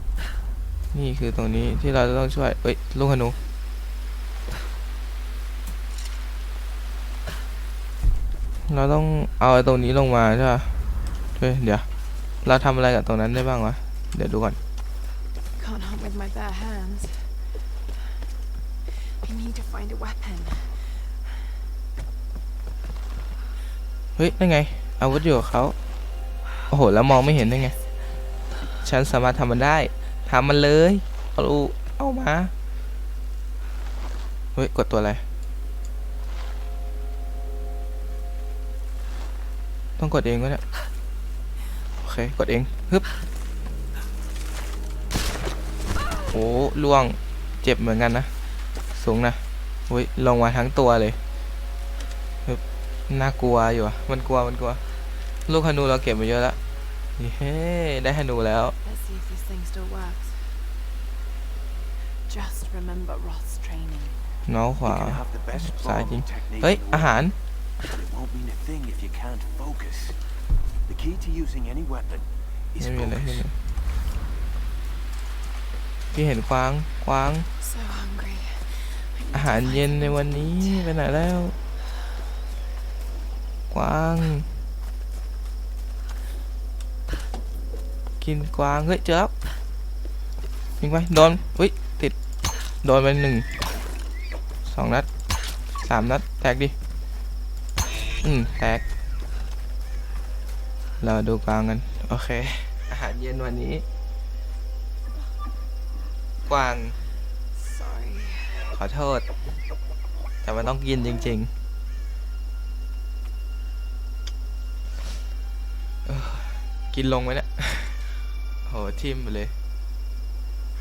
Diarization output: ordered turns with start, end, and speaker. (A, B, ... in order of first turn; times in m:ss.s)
0:00.9-0:03.4 A
0:08.7-0:10.8 A
0:11.4-0:11.9 A
0:12.4-0:14.6 A
0:15.6-0:17.3 B
0:19.1-0:21.1 B
0:24.2-0:25.8 A
0:26.7-0:27.8 A
0:28.8-0:32.5 A
0:34.6-0:35.2 A
0:40.0-0:40.6 A
0:42.0-0:43.1 A
0:46.3-0:48.3 A
0:48.9-0:51.2 A
0:52.5-0:54.8 A
0:55.5-0:56.6 A
0:57.2-0:58.8 A
0:58.8-1:00.6 B
1:02.2-1:04.2 B
1:04.5-1:07.4 A
1:04.8-1:07.2 C
1:07.8-1:10.2 C
1:10.9-1:13.5 C
1:12.8-1:13.6 A
1:16.1-1:17.5 A
1:17.6-1:21.0 B
1:19.3-1:21.6 A
1:23.7-1:24.5 A
1:28.2-1:29.3 A
1:30.8-1:32.2 A
1:32.8-1:33.5 A
1:34.7-1:35.1 A
1:35.8-1:36.7 A
1:38.2-1:38.8 A
1:41.0-1:43.8 A
1:46.5-1:47.0 A
1:47.5-1:48.7 B
1:48.7-1:49.3 A
1:50.4-1:51.5 A
1:56.0-1:58.0 A
1:58.7-1:59.5 A